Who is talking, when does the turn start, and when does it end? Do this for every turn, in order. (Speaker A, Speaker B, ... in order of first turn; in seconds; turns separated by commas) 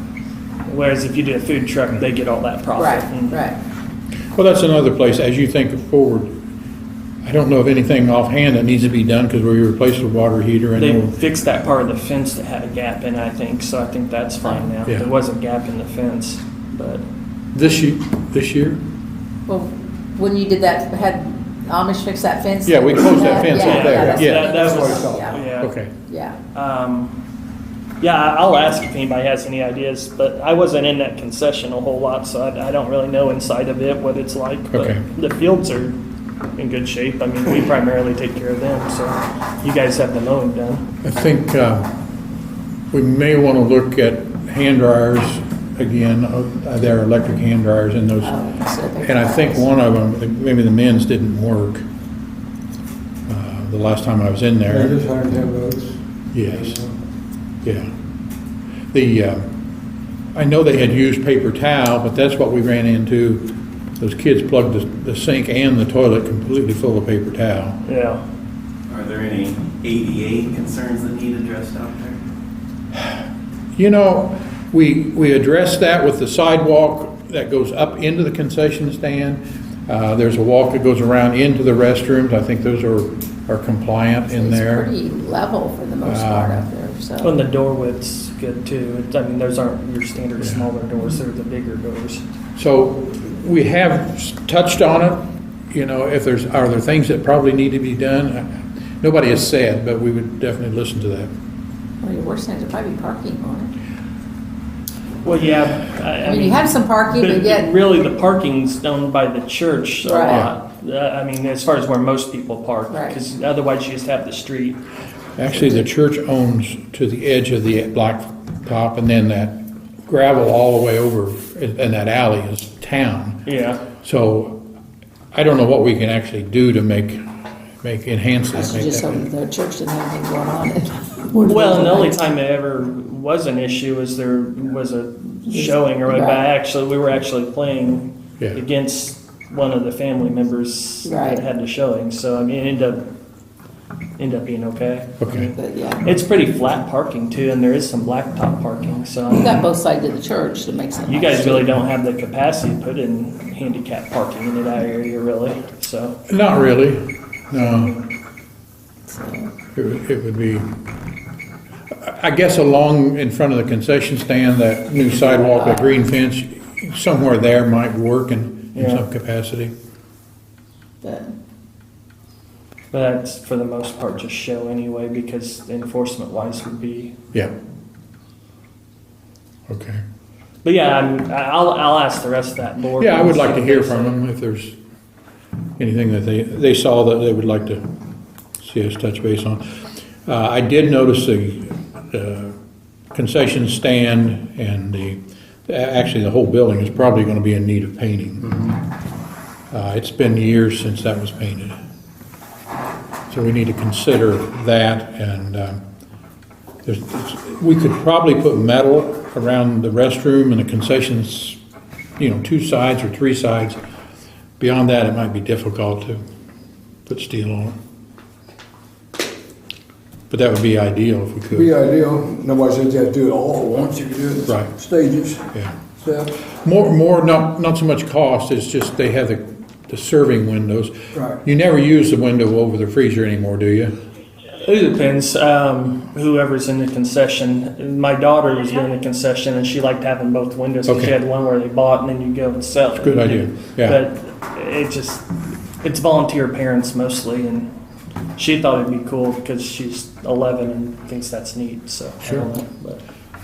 Speaker A: 0.7-3.4, Speaker B: 2.8-3.6, Speaker C: 4.3-6.3, Speaker C: 7.2-11.2, Speaker A: 10.8-17.1, Speaker C: 17.5-18.8, Speaker B: 19.5-25.5, Speaker C: 22.7-24.6, Speaker A: 23.5-25.7, Speaker D: 23.8-25.4, Speaker C: 25.6-25.9, Speaker B: 26.1-26.4, Speaker A: 26.5-27.2, Speaker A: 28.0-36.0, Speaker C: 34.7-35.0, Speaker A: 36.6-40.8, Speaker C: 41.0-41.9, Speaker C: 42.9-48.4, Speaker B: 48.2-49.7, Speaker C: 49.0-51.9, Speaker C: 53.3-55.0, Speaker D: 54.7-56.9, Speaker C: 56.3-56.8, Speaker C: 57.6-57.9, Speaker C: 58.9-59.5, Speaker C: 60.3-67.8, Speaker A: 67.8-68.2, Speaker E: 68.9-72.2, Speaker C: 73.8-84.9, Speaker B: 84.3-87.4, Speaker C: 86.0-86.7, Speaker A: 87.2-92.2, Speaker C: 90.4-90.7, Speaker C: 92.6-101.3, Speaker B: 102.0-103.7, Speaker A: 105.2-114.8, Speaker B: 106.2-107.7, Speaker B: 110.0-110.5, Speaker B: 112.9-113.2, Speaker C: 115.4-123.4, Speaker A: 123.5-123.8, Speaker C: 124.0-124.6, Speaker C: 125.3-129.2, Speaker B: 128.5-132.2, Speaker A: 131.4-143.0, Speaker B: 135.5-136.4, Speaker B: 141.0-141.4, Speaker A: 144.2-149.6, Speaker C: 145.2-145.5, Speaker B: 145.6-146.0, Speaker B: 149.3-151.7, Speaker A: 151.1-156.2, Speaker C: 156.3-158.0, Speaker B: 159.1-159.5, Speaker C: 159.8-160.7, Speaker C: 161.9-169.7, Speaker B: 165.2-165.9, Speaker A: 168.8-169.0, Speaker B: 171.0-171.3, Speaker A: 172.9-177.1, Speaker C: 179.7-180.0, Speaker A: 180.6-184.2, Speaker C: 183.0-184.8, Speaker C: 185.8-187.9, Speaker C: 188.6-192.6, Speaker C: 193.1-198.8, Speaker C: 199.7-201.8, Speaker C: 203.3-205.8, Speaker C: 206.8-211.6, Speaker C: 212.2-213.8, Speaker C: 214.6-216.2, Speaker C: 217.1-217.8, Speaker C: 220.3-221.7, Speaker D: 221.5-226.4, Speaker C: 226.5-233.9, Speaker D: 231.1-231.4, Speaker A: 234.6-245.3, Speaker C: 240.9-241.2, Speaker C: 243.0-244.0, Speaker A: 245.8-247.7, Speaker A: 248.4-253.0